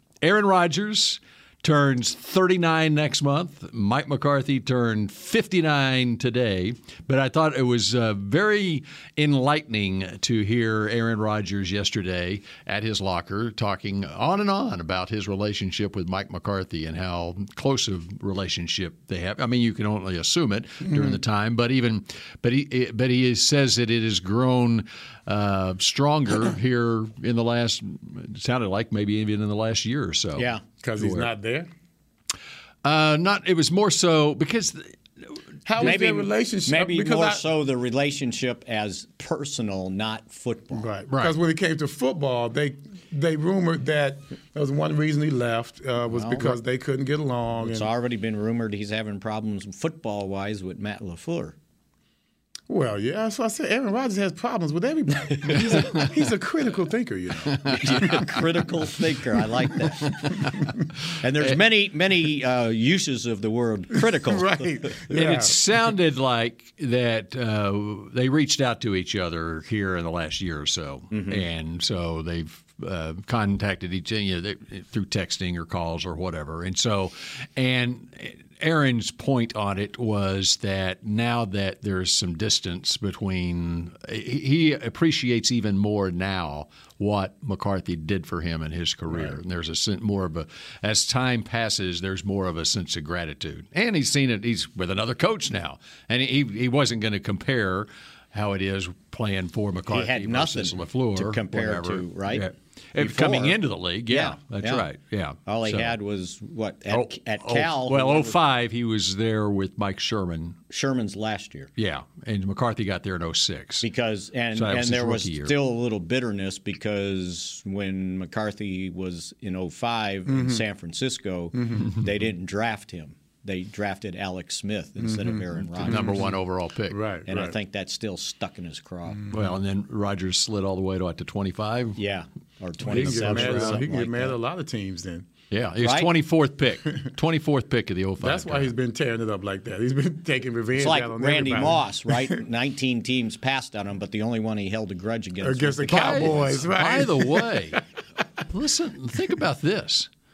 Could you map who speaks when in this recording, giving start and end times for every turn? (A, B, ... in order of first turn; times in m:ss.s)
0:00.2-0:31.3 A
0:20.9-0:21.2 B
0:30.4-0:30.6 C
0:30.8-0:31.7 B
0:32.8-0:35.0 A
0:35.7-0:37.4 B
0:35.8-0:40.9 C
0:40.7-0:47.9 B
0:41.1-0:41.4 A
0:46.1-0:46.6 C
0:47.6-0:51.6 C
0:52.7-0:58.2 B
0:57.6-0:58.2 A
0:57.7-1:00.1 C
1:01.2-1:05.0 C
1:04.1-1:05.6 B
1:05.1-1:46.0 A
1:11.1-1:11.4 C
1:39.9-1:44.9 C
1:45.5-1:48.4 C
1:46.9-1:50.6 A
1:50.7-1:51.7 C
1:51.8-1:53.9 A
1:53.8-2:06.2 C
1:54.5-1:55.6 A
2:00.3-2:00.6 B
2:01.6-2:01.9 B
2:05.0-2:06.4 B
2:05.8-2:07.0 A
2:06.9-2:07.6 B
2:07.3-2:09.3 C
2:09.2-2:09.5 B
2:09.3-2:12.0 A
2:12.0-2:14.4 C
2:12.8-2:15.3 B
2:12.9-2:13.8 A
2:15.5-2:18.7 A
2:15.8-2:16.1 C
2:18.2-2:22.4 B
2:20.8-2:26.6 C
2:25.4-2:27.8 B
2:25.9-2:27.8 A
2:28.5-2:30.1 A